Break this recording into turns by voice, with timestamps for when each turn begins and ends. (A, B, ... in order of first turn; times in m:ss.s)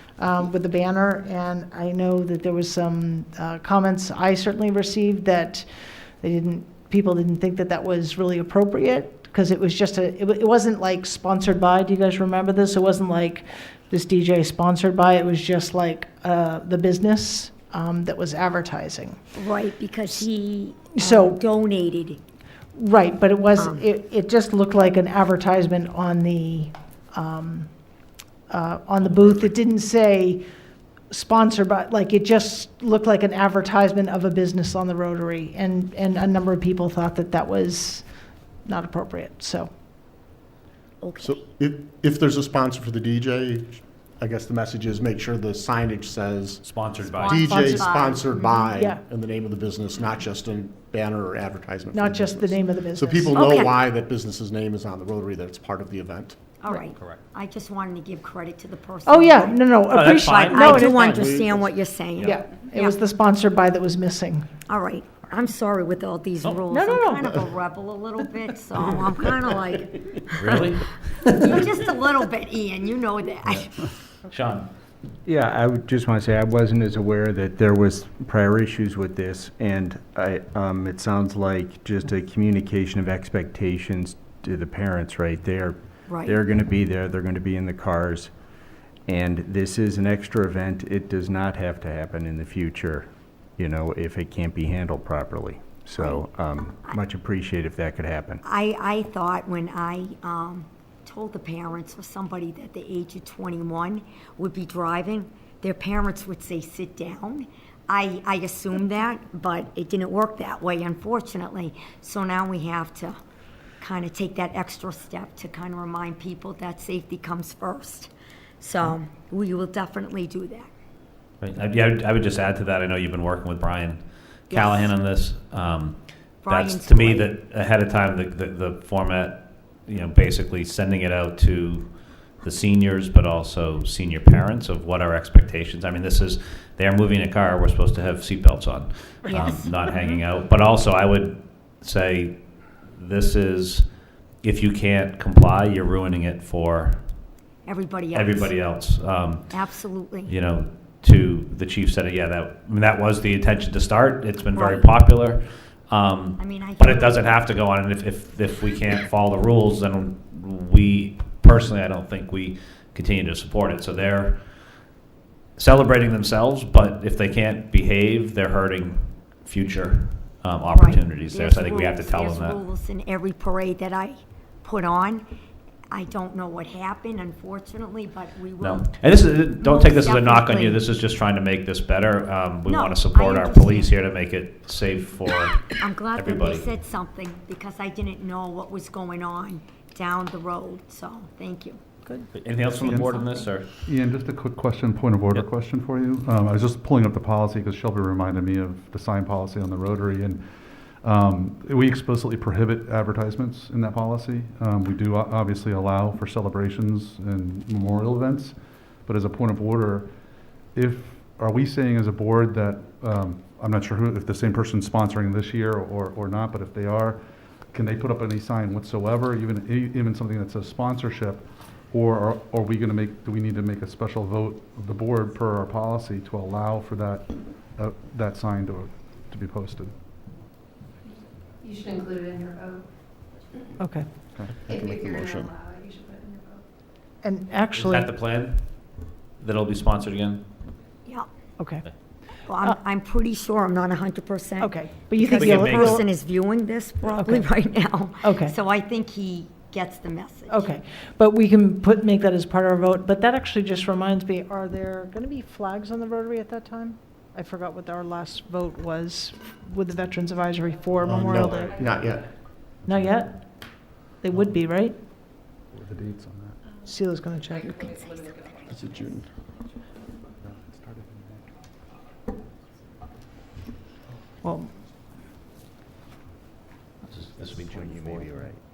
0:00.2-0:05.7 A
0:06.2-0:19.2 A
0:19.3-0:22.2 B
0:20.9-0:21.4 A
0:22.7-0:27.7 A
0:23.6-0:23.8 B
0:28.5-0:30.4 A
0:31.1-0:38.0 A
0:38.6-0:39.7 A
0:41.0-0:41.4 B
0:41.2-0:46.7 C
0:46.6-0:47.6 D
0:47.1-0:48.7 B
0:47.2-0:56.4 C
0:47.5-0:47.8 A
0:48.7-0:49.0 A
0:51.9-0:53.3 A
0:53.3-0:53.8 B
0:56.6-0:59.6 B
0:56.9-0:57.2 D
0:59.0-1:01.2 A
0:59.9-1:01.2 D
1:00.1-1:03.0 B
1:00.7-1:02.3 C
1:02.2-1:04.5 A
1:04.7-1:10.7 B
1:06.7-1:07.3 A
1:10.3-1:11.7 D
1:11.4-1:13.9 B
1:14.3-1:14.7 D
1:15.2-1:28.3 E
1:26.1-1:26.4 B
1:29.1-1:38.4 E
1:36.0-1:36.2 B
1:38.4-1:53.2 B
1:53.8-2:00.7 B
2:01.4-2:23.9 D
2:04.5-2:04.9 B
2:06.4-2:07.3 B
2:19.2-2:19.5 A
2:19.3-2:19.6 B
2:24.4-2:27.0 D
2:27.6-2:28.5 B
2:28.1-2:29.6 D
2:29.5-2:30.3 B
2:30.2-2:44.5 D
2:34.5-2:34.9 B
2:36.4-2:37.2 B
2:45.6-2:52.6 D
2:50.7-2:55.2 B
2:55.9-2:58.9 B
2:58.6-3:06.7 D
2:59.6-3:00.8 B
3:02.7-3:03.9 B
3:05.6-3:11.8 B
3:12.3-3:13.8 D
3:12.6-3:13.5 B
3:12.7-3:13.2 F
3:13.8-3:20.4 F
3:21.0-3:30.1 F
3:30.7-3:37.2 F
3:37.7-3:49.9 F
3:51.6-3:52.8 G
3:53.8-3:54.1 A
3:54.6-3:55.6 C
3:54.8-3:56.6 G
3:57.2-3:58.1 A
3:57.7-3:58.8 D
3:59.4-4:00.4 D
4:01.6-4:01.8 A
4:02.4-4:10.6 B
4:04.6-4:06.0 A
4:05.3-4:06.0 D
4:07.1-4:07.5 A
4:08.2-4:08.5 A
4:10.5-4:21.8 A
4:21.0-4:22.3 C
4:22.8-4:23.4 A
4:24.1-4:25.0 A
4:25.7-4:26.6 F
4:26.8-4:28.2 A
4:28.7-4:29.2 C
4:30.4-4:31.4 F
4:34.4-4:34.7 A
4:37.1-4:38.5 D
4:37.4-4:38.6 E